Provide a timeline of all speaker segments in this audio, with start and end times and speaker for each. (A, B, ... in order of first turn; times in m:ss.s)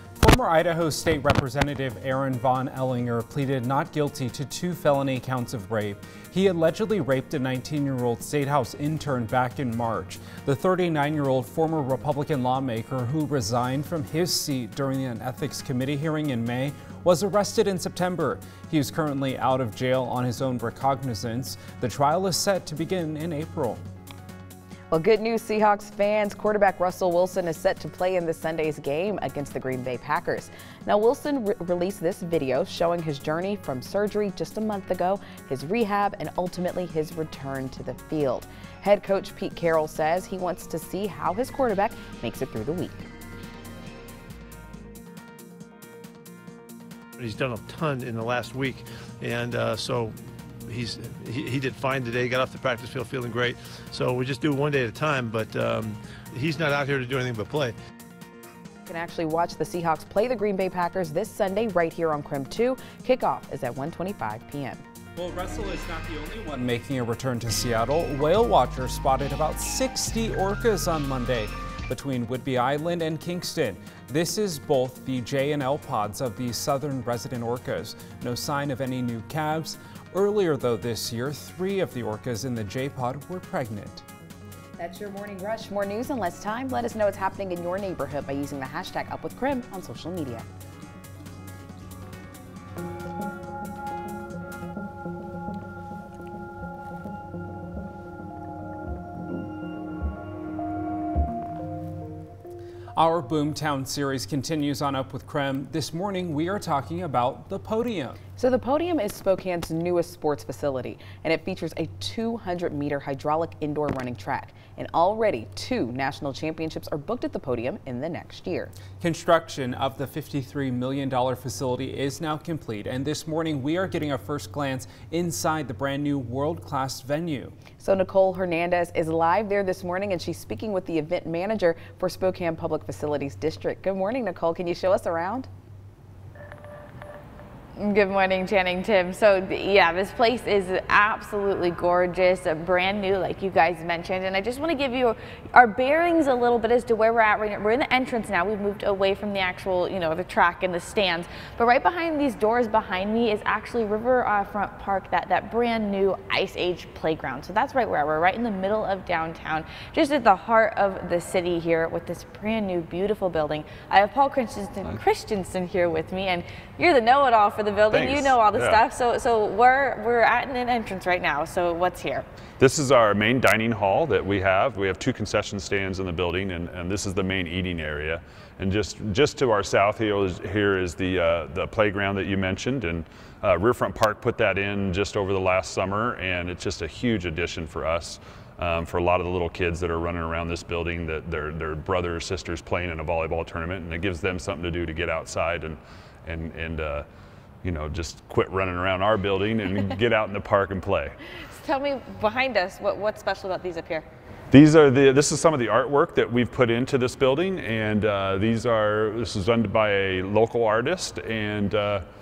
0:00.2-0:23.8 A
0:24.9-0:43.1 B
0:47.2-0:57.8 C
0:58.9-1:04.8 B
1:05.2-1:24.0 A
1:24.8-1:30.5 B
1:43.0-1:48.2 A
1:48.4-1:58.7 B
1:59.0-2:07.6 A
2:07.8-2:15.5 B
2:17.8-2:52.3 D
2:47.9-2:48.8 E
2:52.6-3:17.1 E
3:17.6-3:21.2 E
3:21.6-3:24.1 D
3:24.5-3:32.1 E